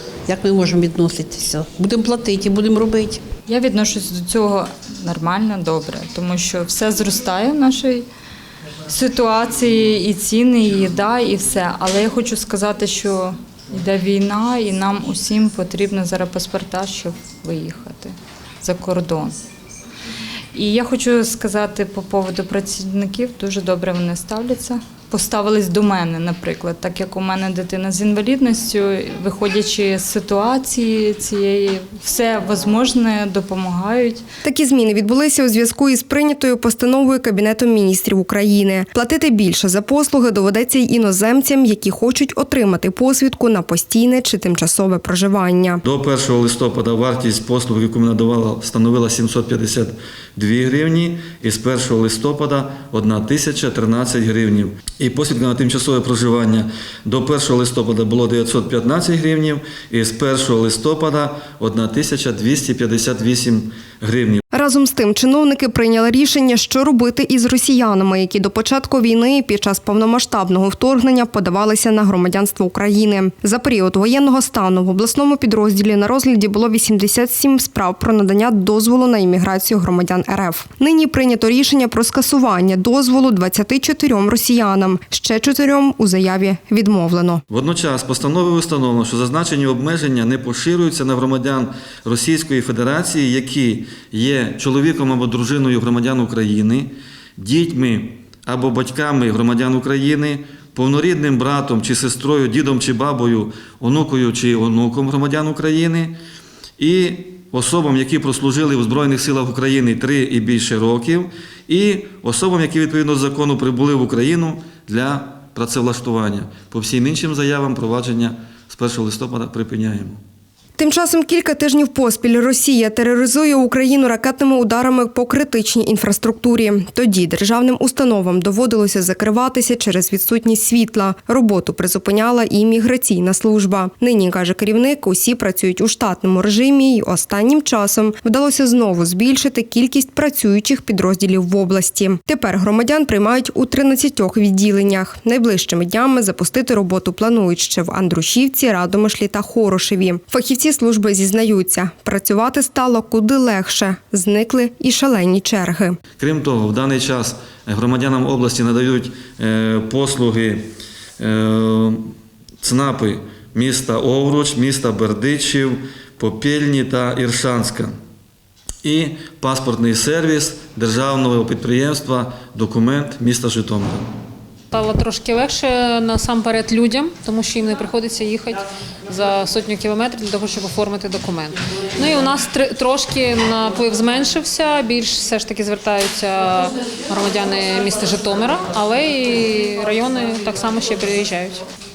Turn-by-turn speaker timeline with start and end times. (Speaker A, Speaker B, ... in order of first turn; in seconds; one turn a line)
Speaker A: 0.3-2.7
Speaker B: 3.5-8.1
Speaker B: 8.9-19.4
Speaker B: 20.5-34.2
Speaker C: 34.4-45.8
Speaker D: 45.8-64.4
Speaker C: 64.5-87.4
Speaker D: 87.5-106.2
Speaker D: 106.8-120.2
Speaker C: 120.8-156.0
Speaker D: 156.2-160.7
Speaker D: 161.2-162.1
Speaker D: 162.6-167.9
Speaker D: 168.8-174.1
Speaker E: 174.7-191.6